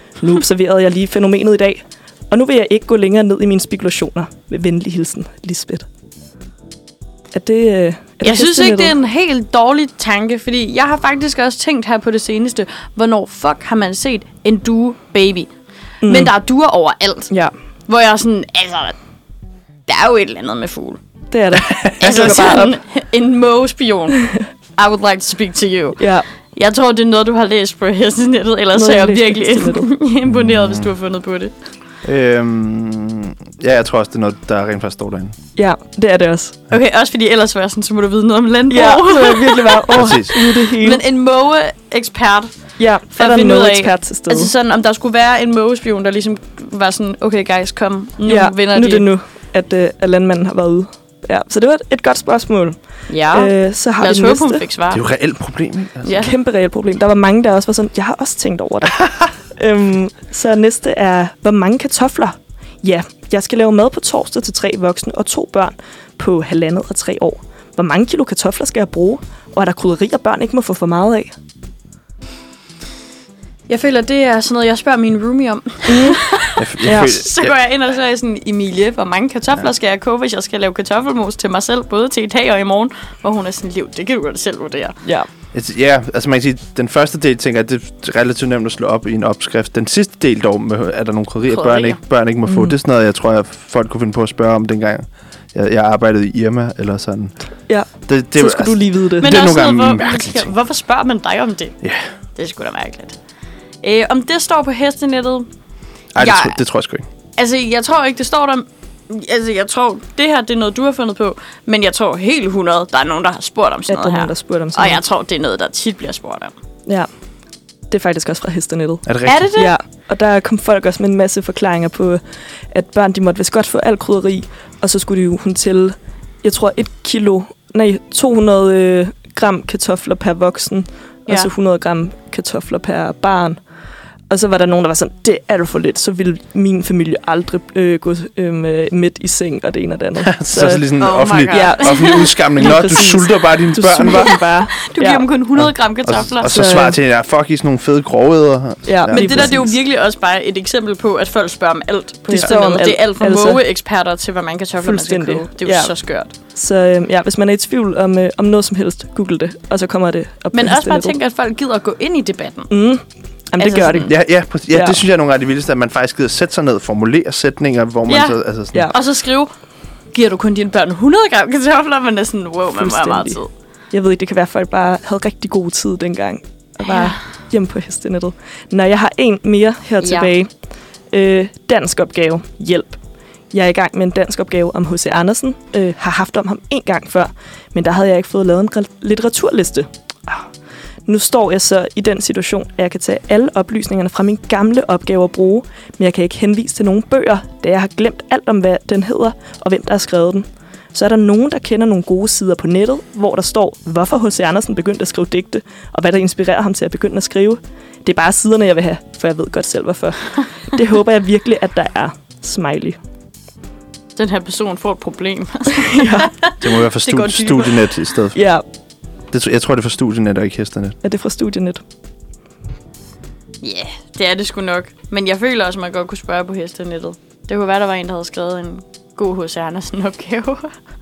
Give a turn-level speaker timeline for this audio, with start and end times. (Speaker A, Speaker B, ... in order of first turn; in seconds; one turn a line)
Speaker A: 0.2-5.8
Speaker A: 7.3-8.9
Speaker B: 8.2-15.5
Speaker A: 16.0-16.3
Speaker B: 16.0-17.3
Speaker B: 17.9-18.9
Speaker B: 19.9-21.0
Speaker A: 21.3-22.8
Speaker C: 21.7-22.3
Speaker B: 22.0-24.2
Speaker B: 24.8-26.0
Speaker A: 26.0-26.2
Speaker B: 26.5-31.5
Speaker A: 28.7-29.9
Speaker C: 30.4-30.8
Speaker C: 32.0-35.4
Speaker A: 35.5-36.6
Speaker B: 36.7-42.6
Speaker A: 38.7-41.0
Speaker C: 39.9-40.3
Speaker A: 42.8-44.5
Speaker B: 43.1-49.0
Speaker A: 48.2-52.8
Speaker B: 53.1-55.0
Speaker A: 53.3-54.6
Speaker C: 54.9-56.2
Speaker B: 56.0-56.3
Speaker A: 56.2-71.3
Speaker B: 73.7-85.0
Speaker A: 75.9-76.2
Speaker C: 76.6-77.5
Speaker A: 76.8-77.1
Speaker C: 85.5-97.3
Speaker B: 91.4-92.0
Speaker A: 92.4-92.8
Speaker A: 97.7-99.3
Speaker C: 98.1-100.5
Speaker B: 99.2-101.8
Speaker B: 102.3-103.2
Speaker B: 103.8-105.5
Speaker C: 106.1-107.0
Speaker B: 106.2-106.6
Speaker B: 107.4-116.5
Speaker A: 113.9-115.0
Speaker A: 117.9-122.2
Speaker C: 119.0-119.5
Speaker B: 119.2-119.7
Speaker A: 122.7-133.6
Speaker A: 134.3-140.9
Speaker C: 140.2-144.4
Speaker B: 141.0-142.7
Speaker A: 141.5-145.2
Speaker B: 144.2-146.7
Speaker C: 145.6-149.7
Speaker A: 146.4-146.9
Speaker A: 148.8-149.7
Speaker B: 149.1-156.3
Speaker A: 152.3-153.6
Speaker A: 154.8-155.9
Speaker A: 156.5-161.1
Speaker B: 160.5-162.7
Speaker A: 162.7-164.1
Speaker B: 163.6-164.1
Speaker C: 164.1-168.9
Speaker A: 164.7-165.0
Speaker B: 168.1-168.3
Speaker B: 168.9-169.5
Speaker B: 170.1-173.5
Speaker A: 172.7-173.4
Speaker A: 173.9-180.5
Speaker B: 176.8-177.1
Speaker B: 180.0-180.3
Speaker A: 181.1-183.0
Speaker A: 183.5-190.4
Speaker A: 191.1-213.0
Speaker B: 214.2-217.8
Speaker A: 215.8-216.3
Speaker C: 216.6-218.4
Speaker A: 218.3-218.6
Speaker C: 219.3-221.0
Speaker A: 221.0-221.8
Speaker B: 223.6-230.7